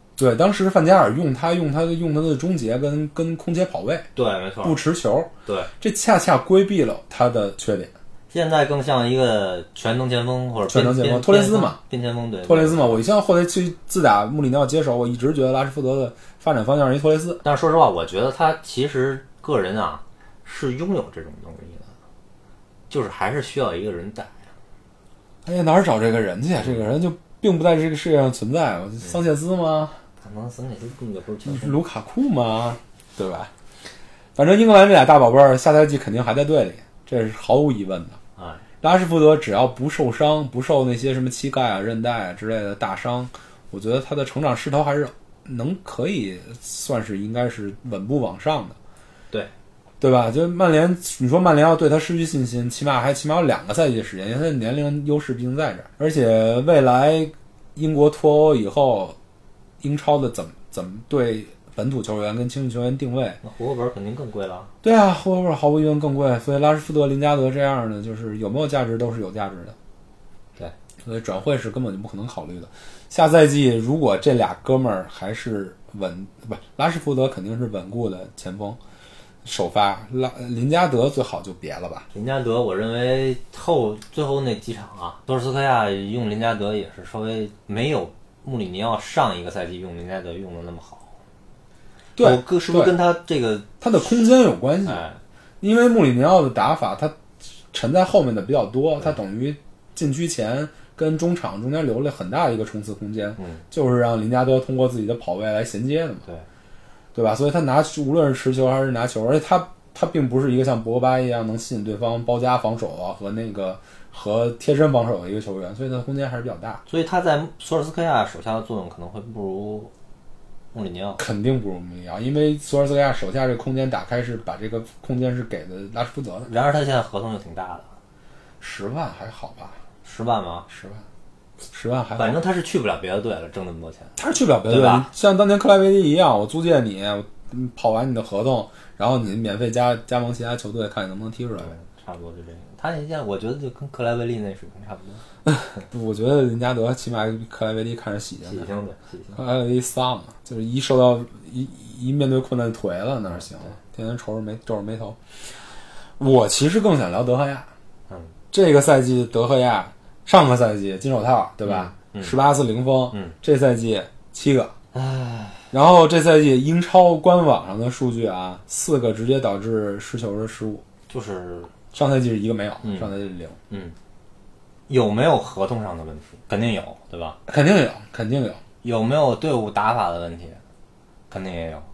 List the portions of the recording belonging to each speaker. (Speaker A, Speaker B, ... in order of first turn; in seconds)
Speaker A: 0.2-4.1, 4.6-7.9, 10.7-11.8, 12.4-17.4, 25.4-30.0, 31.5-33.5, 34.4-38.2, 38.8-48.8, 50.0-59.2, 59.8-63.4, 64.8-69.8, 71.0-78.8, 79.4-82.1, 92.2-93.0, 93.8-95.0, 95.6-97.2, 97.7-106.2, 107.2-116.8, 121.2-126.5, 128.6-129.8, 130.7-131.0, 131.7-132.4, 134.2-141.7, 145.4-148.7, 149.3-155.2, 156.2-157.7, 158.5-164.7, 165.7-170.8, 171.9-173.6, 177.5-178.6
Speaker B: 4.2-4.8, 5.5-5.7, 8.3-13.0, 17.4-21.9, 22.9-24.4, 26.6-26.9, 30.2-31.8, 38.4-38.6, 63.4-64.7, 82.1-91.1, 92.2-93.7, 94.8-95.2, 103.4-103.6, 116.9-119.9, 120.7-121.2, 126.5-127.9, 130.0-130.7, 132.2-134.2, 134.7-135.1, 141.6-145.2, 148.4-149.4, 153.4-153.7, 161.7-162.4, 164.9-165.6, 171.1-171.8, 172.8-173.1, 173.7-173.9, 174.9-177.4, 178.8-180.6, 181.3-181.9